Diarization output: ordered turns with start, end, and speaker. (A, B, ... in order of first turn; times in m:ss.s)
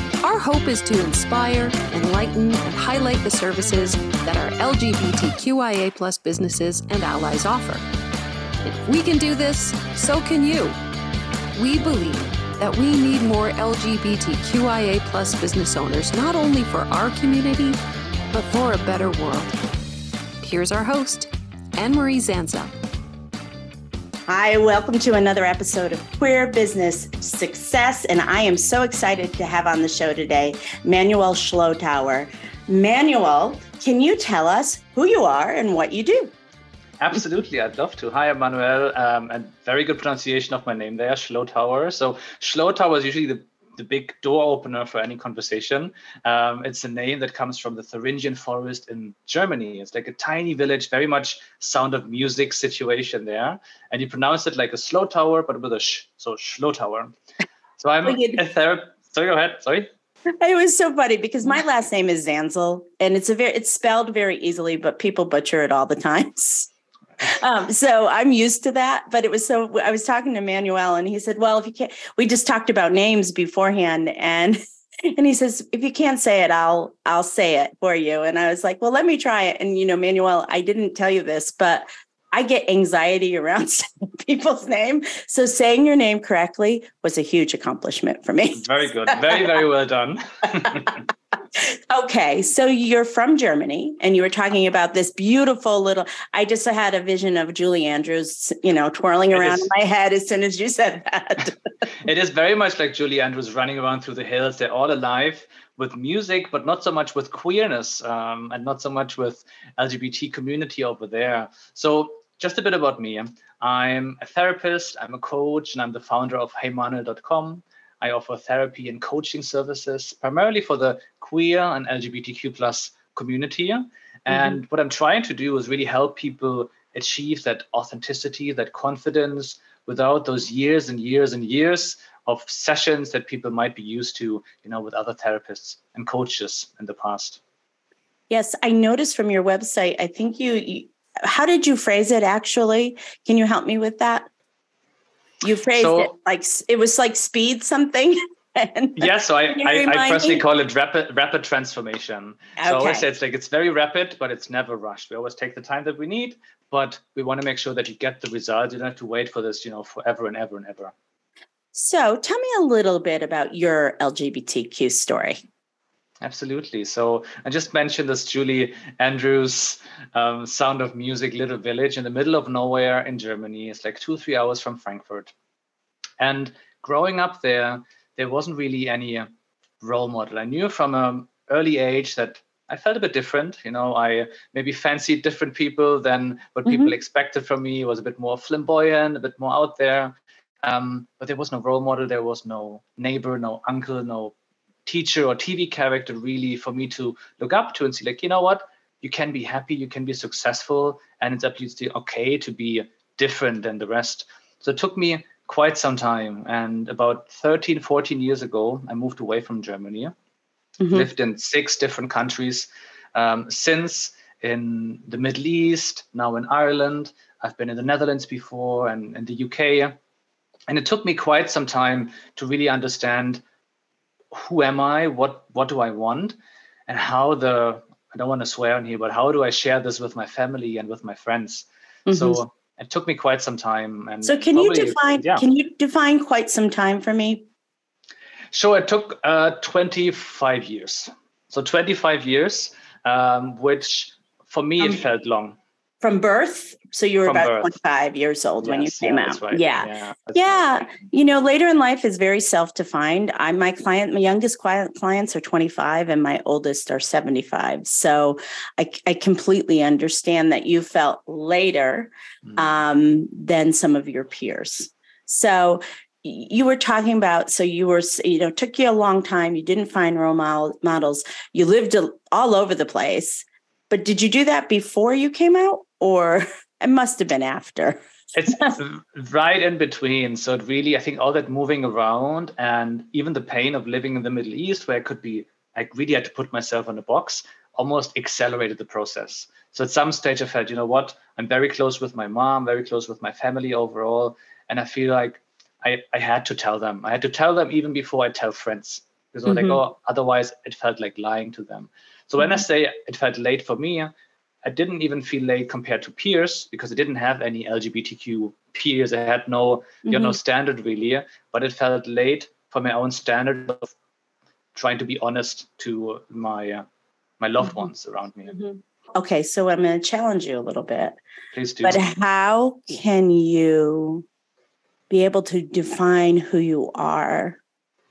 0:00.2-0:07.8 A
0:08.6-0:10.8 A
0:11.6-0:17.8 A
0:18.3-0:19.6 A
0:20.4-0:22.7 A
0:24.3-0:36.3 B
0:37.0-0:57.1 C
0:57.8-0:59.9 C
0:58.0-0:58.4 B
1:00.4-1:06.7 B
1:07.2-1:14.6 B
1:15.1-1:29.6 B
1:28.6-1:31.0 C
1:30.6-1:30.9 B
1:31.6-1:41.6 B
1:39.3-1:39.7 C
1:42.0-2:17.4 C
2:04.3-2:04.6 B
2:18.3-2:24.3 B
2:25.4-2:30.4 B
2:25.7-2:26.1 C
2:29.0-2:40.9 C
2:32.6-2:33.0 B
2:41.7-2:45.4 B
2:46.2-2:55.3 C
2:56.2-2:59.3 C
2:59.8-3:14.4 C
3:06.7-3:06.9 B
3:14.9-3:30.1 C
3:30.8-3:31.1 B
3:30.9-3:40.0 C
3:40.7-3:43.4 C
3:44.3-3:55.4 C
3:52.1-3:52.4 B
3:54.2-3:57.4 B
3:58.5-4:05.6 C
4:06.0-4:38.0 B
4:07.2-4:07.8 C
4:08.6-4:10.9 C
4:38.4-5:04.1 C
4:59.5-4:59.8 B
5:04.6-5:13.9 C
5:10.1-5:10.4 B
5:14.8-5:16.8 C
5:17.4-5:18.5 C
5:17.6-5:17.9 B
5:18.5-5:21.2 B
5:21.5-5:22.0 C
5:21.8-5:24.2 B
5:25.1-5:27.6 B